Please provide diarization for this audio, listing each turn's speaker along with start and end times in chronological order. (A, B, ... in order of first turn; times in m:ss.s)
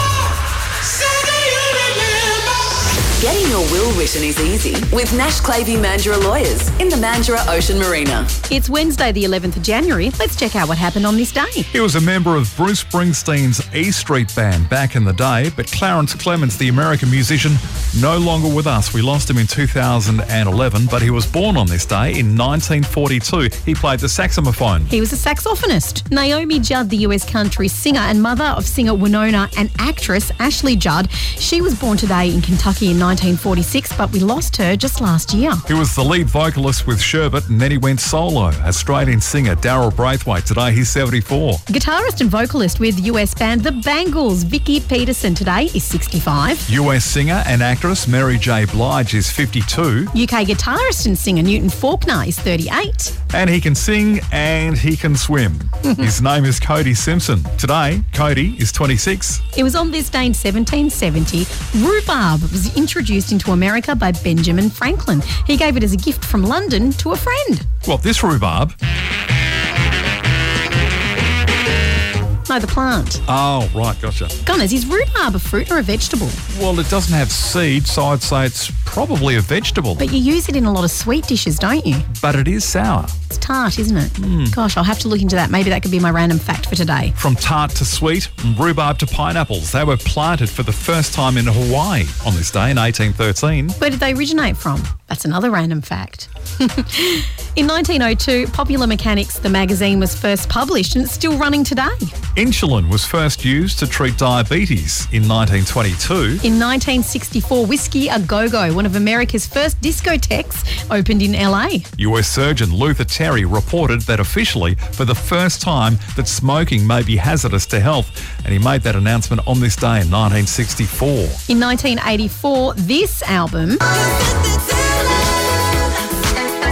0:01.3-0:02.4 A
0:03.1-0:08.4 A
0:08.4-0:11.7 B
0:11.7-0:24.9 C
0:24.9-0:35.6 B
0:35.7-0:41.6 C
0:41.7-0:46.6 B
0:46.7-0:50.1 C
0:50.1-0:53.2 B
0:53.3-0:59.4 C
0:59.5-1:07.7 B
1:07.8-1:08.7 C
1:12.5-1:13.2 B
1:13.3-1:14.4 C
1:14.4-1:16.4 B
1:16.5-1:20.1 C
1:20.0-1:22.1 B
1:22.1-1:23.1 C
1:23.3-1:27.1 B
1:24.2-1:24.5 C
1:27.2-1:33.8 C
1:33.8-1:42.1 B
1:42.4-1:46.4 C
1:46.4-1:51.9 B
1:52.0-2:01.4 C
2:01.5-2:03.8 B